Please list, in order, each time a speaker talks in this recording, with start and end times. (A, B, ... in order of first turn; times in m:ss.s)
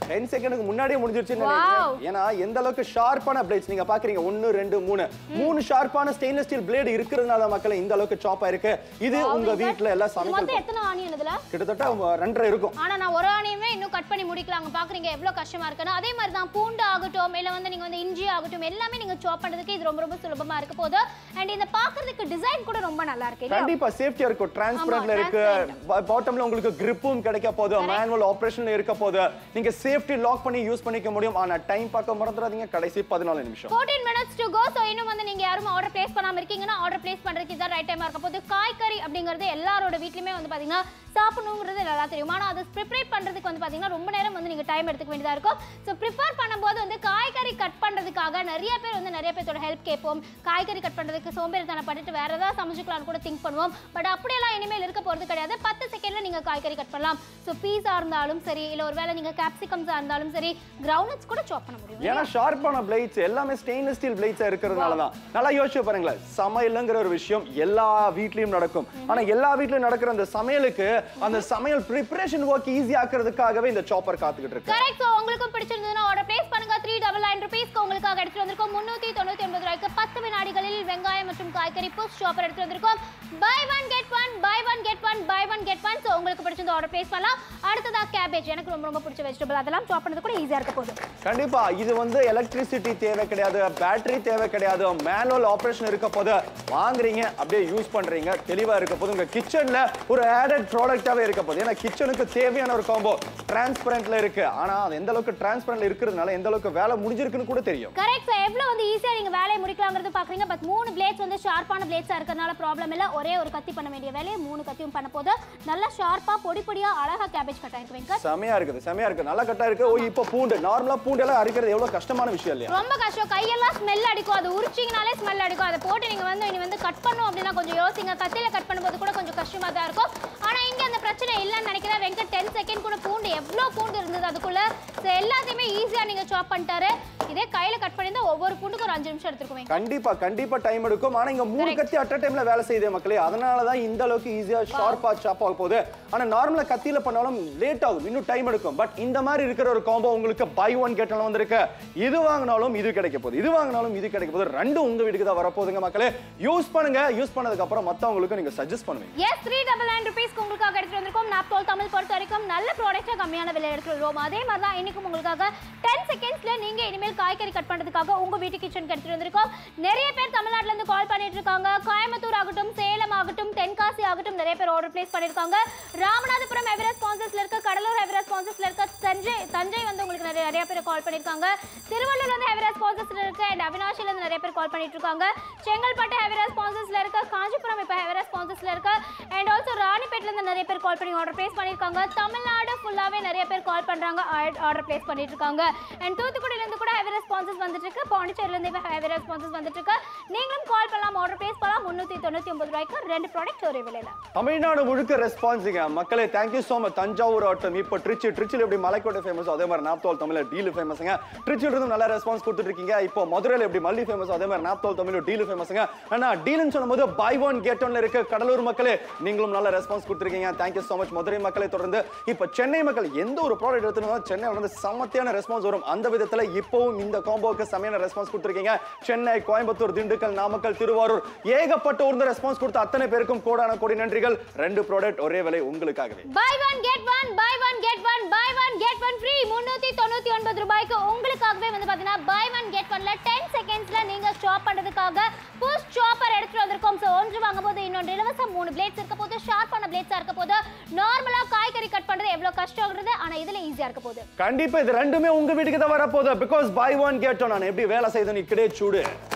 0:00.1-0:10.6 A
0:01.4-0:02.0 B
0:09.1-0:11.4 B
0:11.5-0:12.8 A
0:12.8-0:23.7 B
0:23.5-0:33.7 A
0:24.8-0:25.8 B
0:33.7-1:02.3 B
1:02.0-1:14.9 A
1:04.7-1:05.0 B
1:14.7-1:31.0 B
1:31.2-1:47.9 A
1:48.0-1:58.2 B
1:58.2-2:02.7 A
2:02.7-2:19.8 B
2:19.7-2:39.1 A
2:21.6-2:21.9 B
2:24.7-2:25.0 B
2:39.2-3:24.2 B
3:24.3-3:56.2 A
3:56.3-4:14.2 B
4:14.4-4:19.1 A